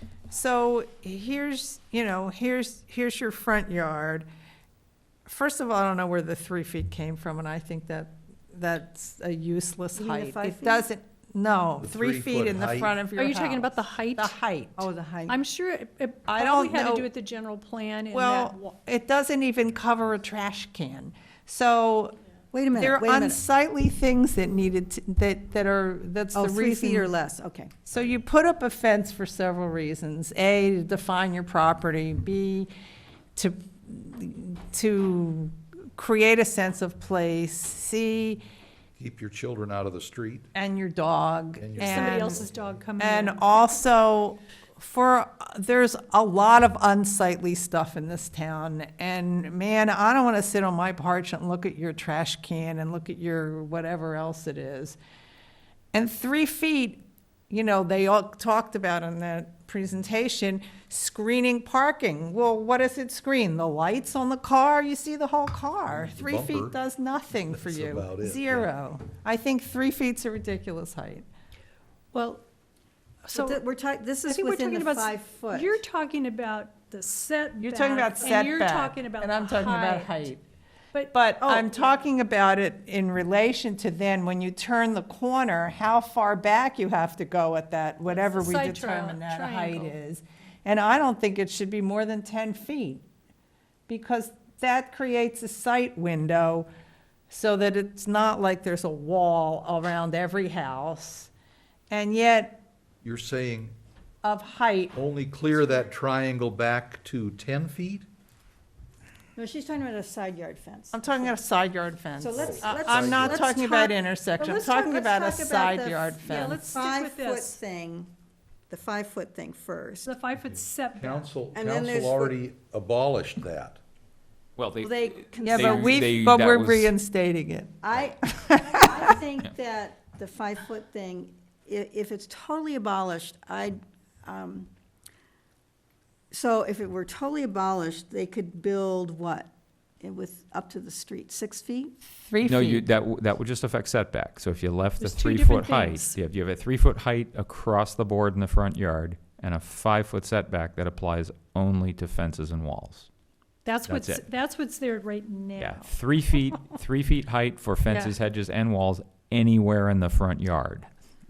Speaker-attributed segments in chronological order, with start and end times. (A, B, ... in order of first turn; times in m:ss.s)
0:00.3-0:04.3 A
0:05.3-0:14.9 A
0:10.0-0:10.9 B
0:11.8-0:13.0 C
0:13.2-0:14.4 D
0:14.8-0:15.4 B
0:15.3-0:18.6 D
0:16.3-0:17.1 A
0:18.1-0:22.2 A
0:22.5-0:23.4 B
0:22.7-0:27.1 A
0:26.3-0:27.8 B
0:27.9-0:32.7 A
0:33.4-0:38.4 A
0:39.0-0:40.5 C
0:40.5-0:42.4 A
0:41.6-0:42.8 C
0:41.8-0:43.7 D
0:43.0-0:55.0 A
0:55.9-1:11.3 A
1:05.9-1:06.8 C
1:07.4-1:08.7 C
1:12.1-1:12.4 D
1:13.2-1:13.6 D
1:13.3-1:15.8 B
1:14.3-1:20.3 D
1:17.6-1:20.4 A
1:20.9-1:21.3 D
1:21.1-1:33.0 A
1:21.4-1:21.7 B
1:28.2-1:30.0 D
1:33.9-1:36.7 A
1:37.3-1:41.3 A
1:41.9-1:42.6 A
1:43.0-1:43.8 C
1:44.2-1:45.0 A
1:44.9-1:48.1 C
1:49.4-1:51.4 B
1:50.9-1:56.8 A
1:52.2-1:58.1 B
1:52.4-1:53.5 C
1:56.3-1:57.6 D
1:58.7-2:00.1 B
2:00.0-2:01.3 D
2:00.4-2:03.8 C
2:01.5-2:02.4 B
2:04.6-2:06.9 E
2:04.8-2:06.2 B
2:05.4-2:07.8 A
2:07.8-2:14.7 B
2:08.3-2:08.9 A
2:16.3-2:19.5 B
2:20.0-2:21.9 B
2:22.2-2:22.9 A
2:22.4-2:33.1 E
2:25.0-2:26.2 D
2:33.6-2:35.9 D
2:33.9-2:34.3 E
2:35.6-2:40.9 E
2:37.9-2:38.2 D